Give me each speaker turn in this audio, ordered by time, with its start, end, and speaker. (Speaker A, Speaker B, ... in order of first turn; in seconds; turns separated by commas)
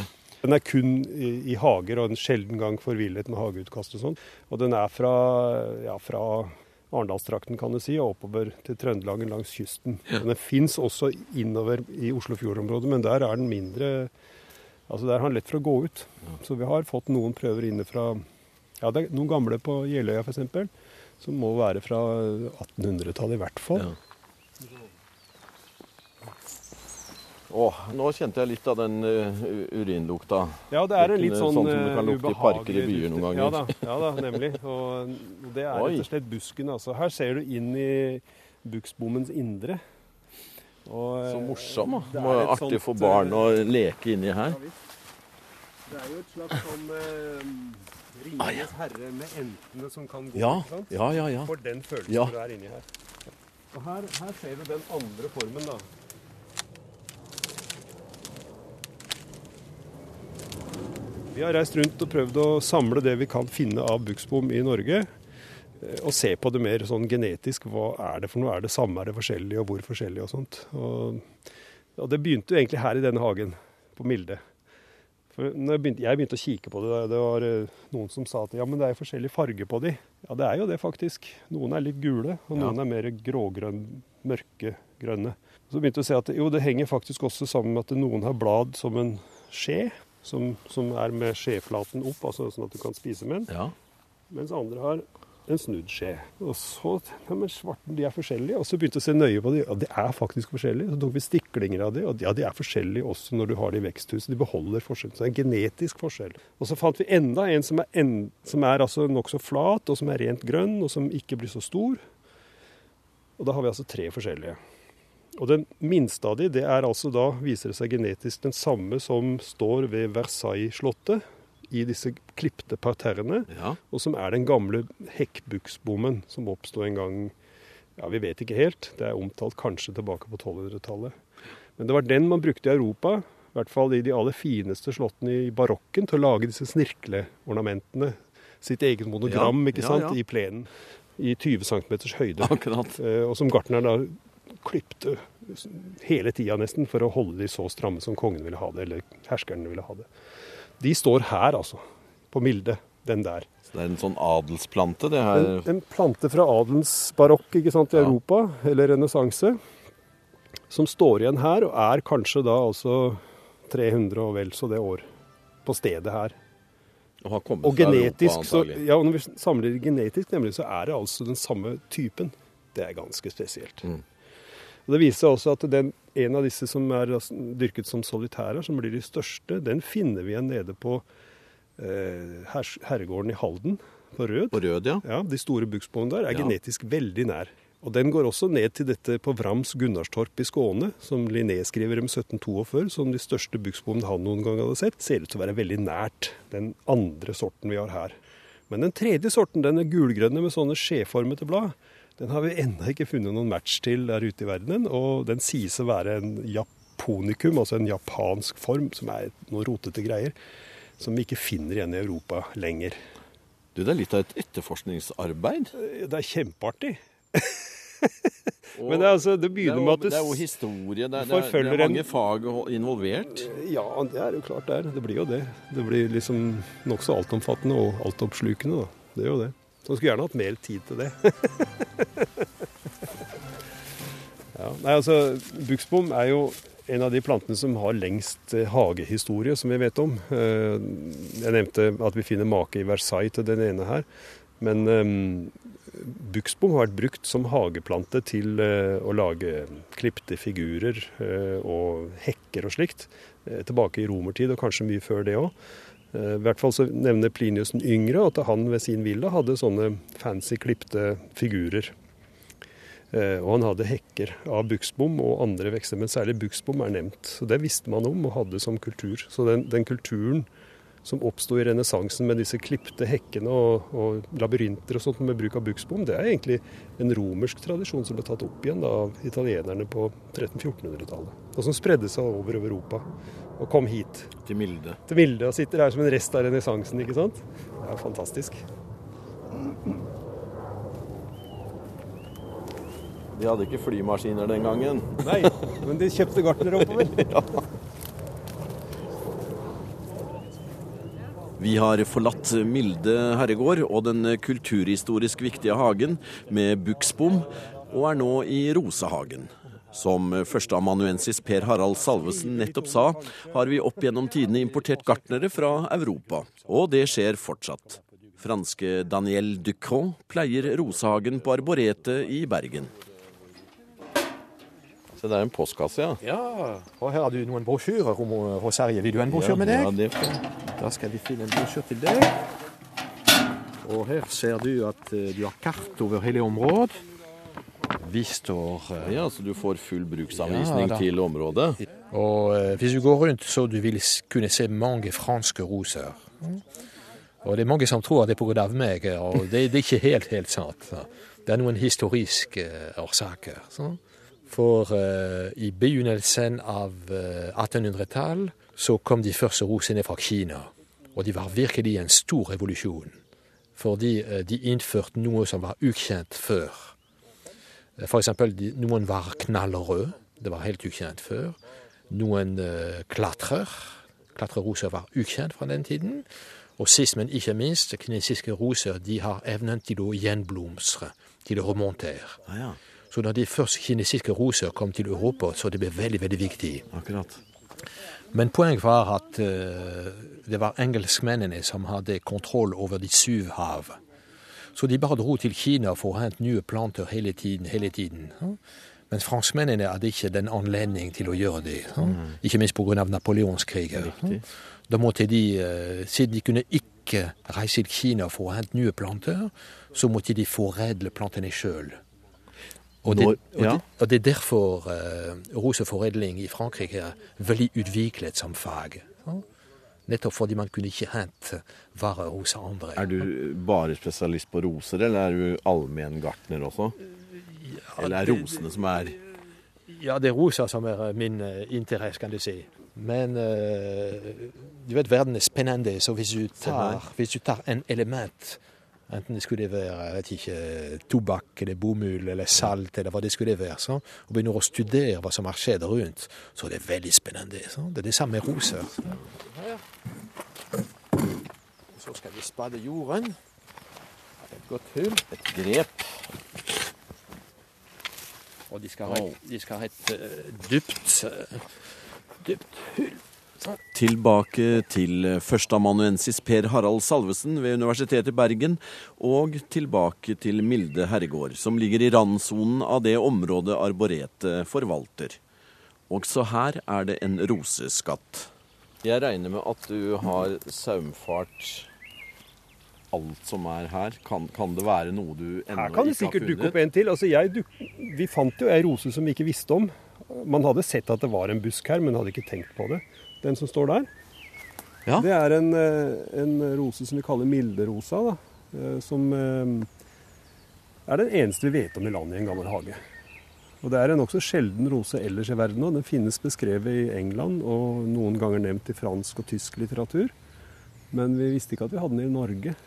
Speaker A: 0.4-14.1, Speaker A: 14.9-18.2, Speaker A: 18.8-23.9, Speaker B: 27.5-33.8, Speaker A: 30.7-39.8, Speaker B: 35.7-36.1, Speaker A: 40.9-43.6, Speaker B: 41.3-44.6, Speaker A: 44.5-44.8, Speaker A: 45.9-52.9, Speaker B: 48.4-48.7, Speaker B: 50.4-51.5, Speaker B: 52.1-52.3, Speaker A: 53.7-55.9, Speaker A: 61.3-65.1, Speaker A: 65.8-71.3, Speaker A: 72.0-74.4, Speaker A: 75.3-93.5, Speaker B: 93.5-93.7, Speaker A: 94.3-112.0, Speaker A: 113.4-114.6, Speaker A: 115.3-127.3, Speaker B: 123.5-123.8, Speaker A: 128.0-131.2, Speaker A: 131.8-150.1, Speaker B: 139.3-140.2, Speaker B: 142.4-143.0, Speaker A: 150.8-153.5, Speaker B: 153.7-155.7, Speaker A: 155.3-159.6, Speaker A: 160.7-165.1, Speaker A: 165.7-166.3, Speaker B: 167.2-168.8, Speaker A: 167.6-173.9, Speaker A: 174.9-181.1, Speaker A: 181.8-198.2, Speaker B: 184.5-185.0, Speaker A: 198.7-210.3, Speaker A: 211.0-213.0, Speaker B: 213.8-215.7, Speaker A: 215.7-220.5, Speaker B: 218.8-223.5, Speaker A: 221.2-222.1, Speaker A: 223.3-232.4, Speaker A: 234.5-244.1, Speaker A: 244.6-255.5, Speaker A: 256.1-261.9, Speaker A: 263.1-270.5, Speaker A: 271.0-283.1, Speaker A: 283.6-284.3, Speaker B: 284.4-285.0, Speaker A: 285.1-288.6, Speaker B: 293.3-295.5, Speaker A: 295.2-297.4, Speaker B: 296.8-297.6, Speaker B: 301.6-322.9, Speaker A: 312.3-313.5, Speaker B: 325.1-326.2, Speaker C: 326.2-329.9, Speaker B: 329.3-330.6, Speaker C: 330.7-332.4, Speaker C: 333.8-337.1, Speaker C: 337.9-339.2, Speaker B: 339.0-341.8, Speaker C: 340.4-341.1, Speaker C: 342.1-346.6, Speaker C: 347.4-363.2, Speaker C: 363.8-366.9, Speaker C: 368.0-371.6, Speaker C: 372.1-382.4, Speaker B: 382.5-382.8, Speaker C: 383.1-386.9, Speaker B: 386.9-387.4, Speaker C: 388.3-394.0, Speaker C: 394.7-398.6, Speaker C: 399.1-412.0, Speaker B: 404.0-404.4, Speaker C: 413.0-419.4, Speaker B: 413.1-413.8, Speaker C: 420.1-423.1, Speaker B: 423.0-427.0, Speaker C: 427.3-428.7, Speaker B: 428.0-429.2, Speaker C: 429.9-449.8, Speaker B: 436.6-437.0, Speaker C: 451.9-453.4, Speaker C: 454.5-455.2, Speaker B: 455.3-456.3, Speaker C: 458.7-461.7, Speaker C: 462.4-463.8, Speaker B: 463.9-475.4, Speaker B: 476.1-478.5, Speaker B: 479.0-481.9, Speaker B: 483.1-486.8, Speaker A: 485.7-494.1, Speaker A: 495.2-499.9, Speaker A: 501.1-503.0, Speaker A: 503.8-510.3, Speaker A: 511.1-512.8